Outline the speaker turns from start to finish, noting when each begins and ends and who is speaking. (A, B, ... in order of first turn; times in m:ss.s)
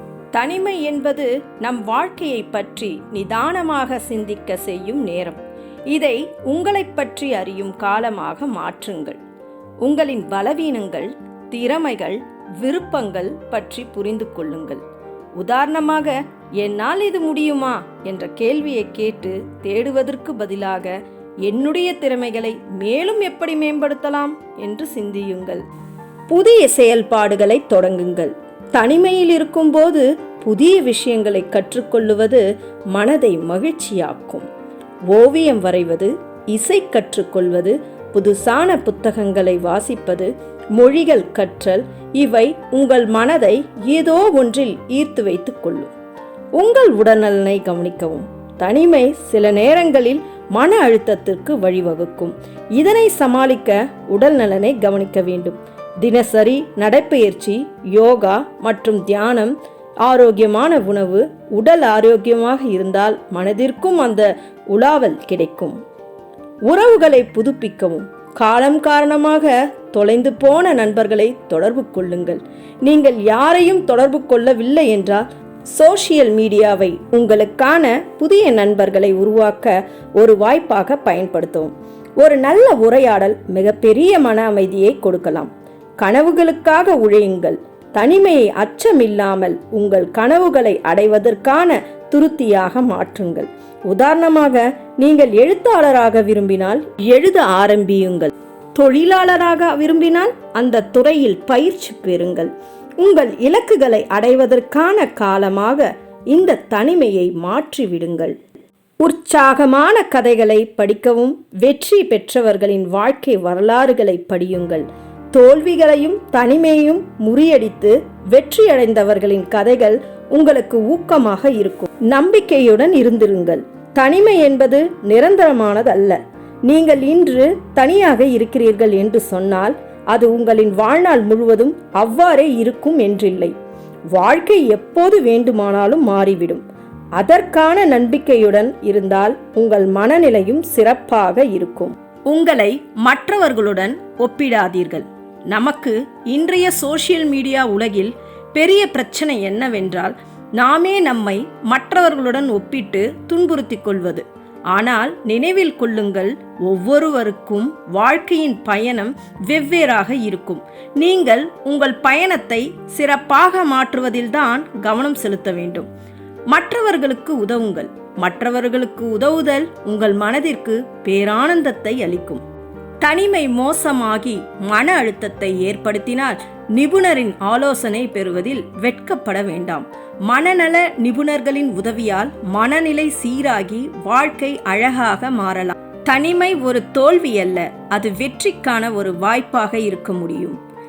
0:00.3-0:09.2 A
0:09.8-0:14.8 A
0:15.4-0:25.6 A
0:26.3-0:34.5 A
0:35.1-0:45.9 A
0:46.6-1:05.8 A
1:06.7-1:48.4 A
1:49.0-2:13.5 A
2:14.1-2:16.6 A
2:17.2-2:45.9 A
2:46.5-2:52.4 A
2:53.0-3:10.6 A